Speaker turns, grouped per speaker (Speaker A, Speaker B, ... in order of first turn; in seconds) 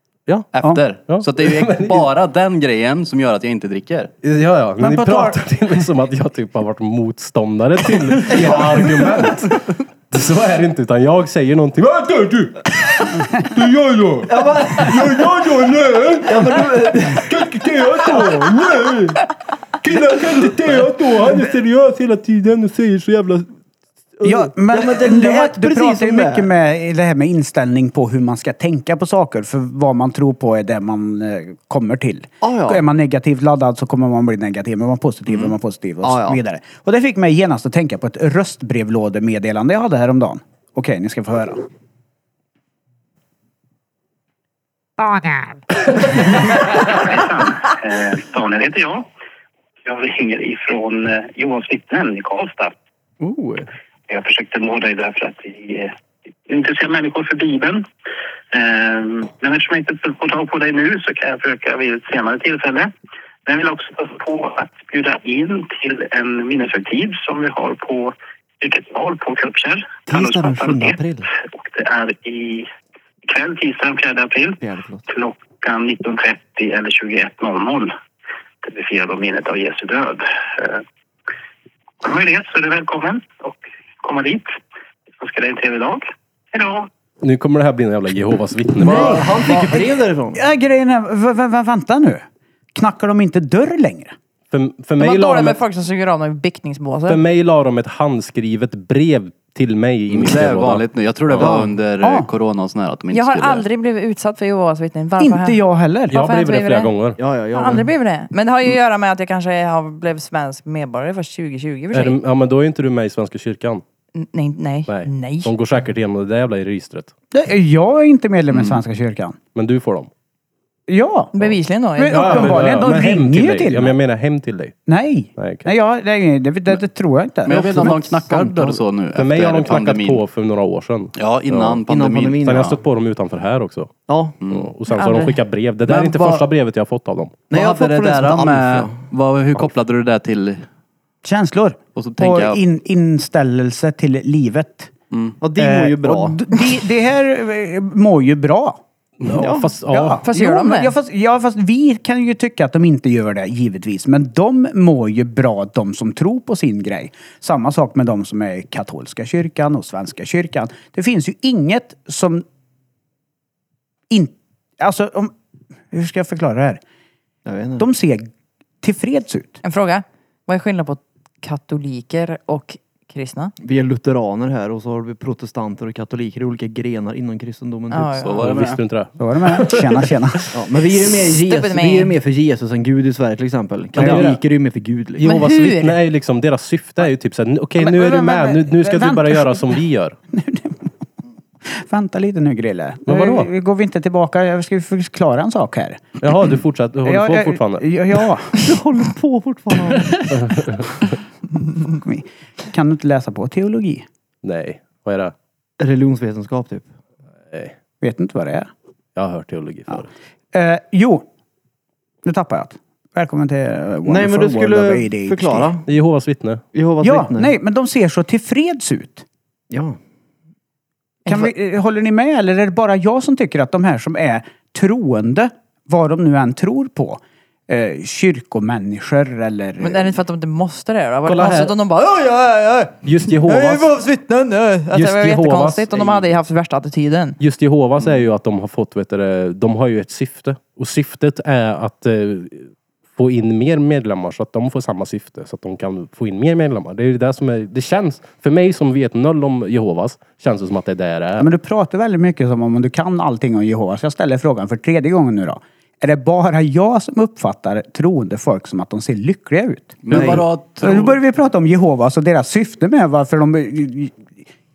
Speaker A: 0.5-4.1, 100.1-103.6, 127.5-130.2, 131.2-132.5, 135.9-136.4, 137.5-140.7, 141.9-142.6, 145.1-145.4, 178.2-178.8, 260.0-261.2
Speaker B: 1.1-2.1, 4.2-16.7, 17.3-19.3, 19.8-23.5, 87.2-89.4, 94.5-95.6, 97.1-100.8, 106.1-107.2, 111.9-113.8, 114.9-117.1, 119.5-120.1, 122.1-124.8, 125.4-125.7, 127.5-131.8, 132.4-133.9, 134.5-137.4, 149.2-150.2, 178.4-180.5, 183.9-184.4, 185.2-190.2, 193.1-193.5, 196.2-197.9, 200.3-201.1, 204.4-205.3, 209.2-210.1, 215.8-216.6, 231.2-231.7, 233.0-233.9, 234.9-236.2, 237.4-251.5
Speaker C: 4.8-5.4, 24.2-41.6, 88.8-92.2, 92.7-94.1, 102.0-102.3, 105.2-106.2, 117.3-119.4, 120.9-121.3, 122.0-124.0, 124.9-128.0, 141.2-144.9, 145.6-148.8, 149.4-162.4, 164.1-165.3, 165.9-166.8, 167.8-168.3, 168.8-169.6, 179.2-180.5, 184.0-184.3, 187.8-189.8, 190.3-190.9, 191.7-196.2, 197.0-198.5, 201.9-204.1, 208.0-208.7, 210.5-211.2, 212.2-215.7, 217.0-219.2, 221.2-230.1, 251.4-264.4
Speaker D: 8.3-9.2, 14.2-15.5, 16.2-18.4, 24.7-26.5, 32.4-32.8, 36.0-36.4, 53.2-53.7, 70.1-71.3, 74.6-75.0, 88.8-90.4, 101.4-101.7, 107.2-107.9, 131.9-132.8, 134.1-134.4, 137.5-139.0, 145.4-146.4, 149.4-149.7, 167.4-167.8, 173.6-178.2, 180.5-185.2, 198.5-200.4, 205.8-206.9, 214.1-215.9, 216.7-217.5, 219.7-220.0, 260.1-260.4
Speaker E: 46.4-49.0, 49.8-52.7, 54.1-55.9, 56.5-57.8, 58.5-62.9, 63.4-72.7, 73.2-77.9, 78.6-80.8, 82.0-84.5, 85.2-86.9
Speaker F: 95.0-97.2, 103.1-106.9, 107.5-112.2, 114.1-115.5, 121.3-122.6, 134.9-135.4, 150.2-150.9, 169.6-173.5, 177.9-178.3, 181.1-182.1, 185.2-186.0, 229.8-237.4